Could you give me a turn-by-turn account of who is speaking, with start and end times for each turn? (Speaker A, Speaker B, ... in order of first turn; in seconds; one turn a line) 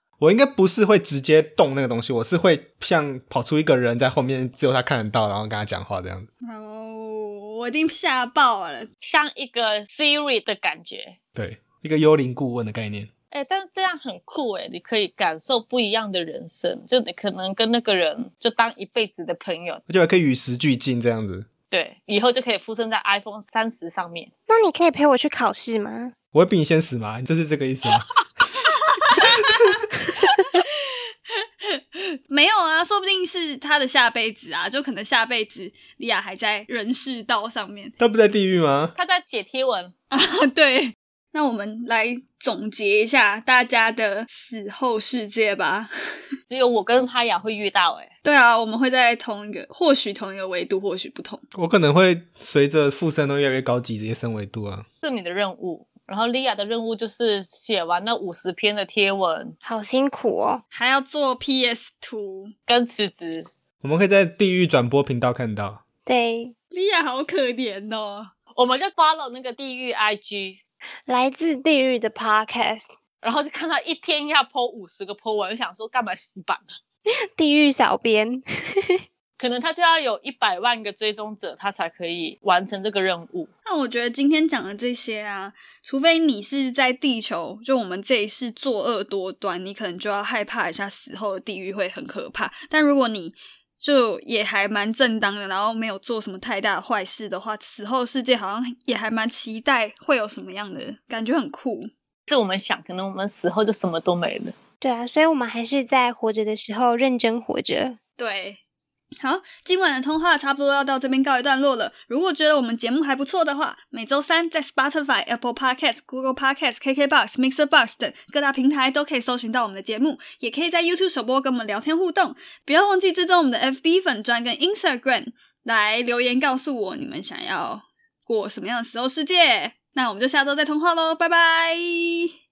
Speaker A: 0.2-6.3
Speaker B: 6.4-8.9
Speaker C: 9.0-11.2
Speaker A: 11.3-13.1
Speaker C: 13.3-19.8
Speaker A: 19.9-21.5
Speaker C: 21.7-24.3
Speaker D: 24.5-26.1
Speaker A: 26.3-29.6
Speaker B: 29.0-37.9
Speaker A: 38.0-38.9
Speaker C: 38.9-39.9
Speaker B: 40.1-45.9
Speaker C: 46.5-48.1
Speaker B: 48.2-51.4
Speaker A: 51.5-54.9
Speaker C: 55.0-59.5
Speaker D: 59.6-60.6
Speaker B: 60.7-62.5
Speaker C: 62.7-63.5
Speaker A: 63.8-65.8
Speaker D: 66.0-66.5
Speaker B: 66.7-68.3
Speaker C: 68.5-70.6
Speaker D: 71.1-72.9
Speaker C: 73.2-76.6
Speaker D: 77.1-79.0
Speaker C: 79.4-83.5
Speaker B: 83.7-101.9
Speaker C: 102.3-104.5
Speaker D: 104.8-108.0
Speaker B: 108.2-108.6
Speaker B: 109.2-132.3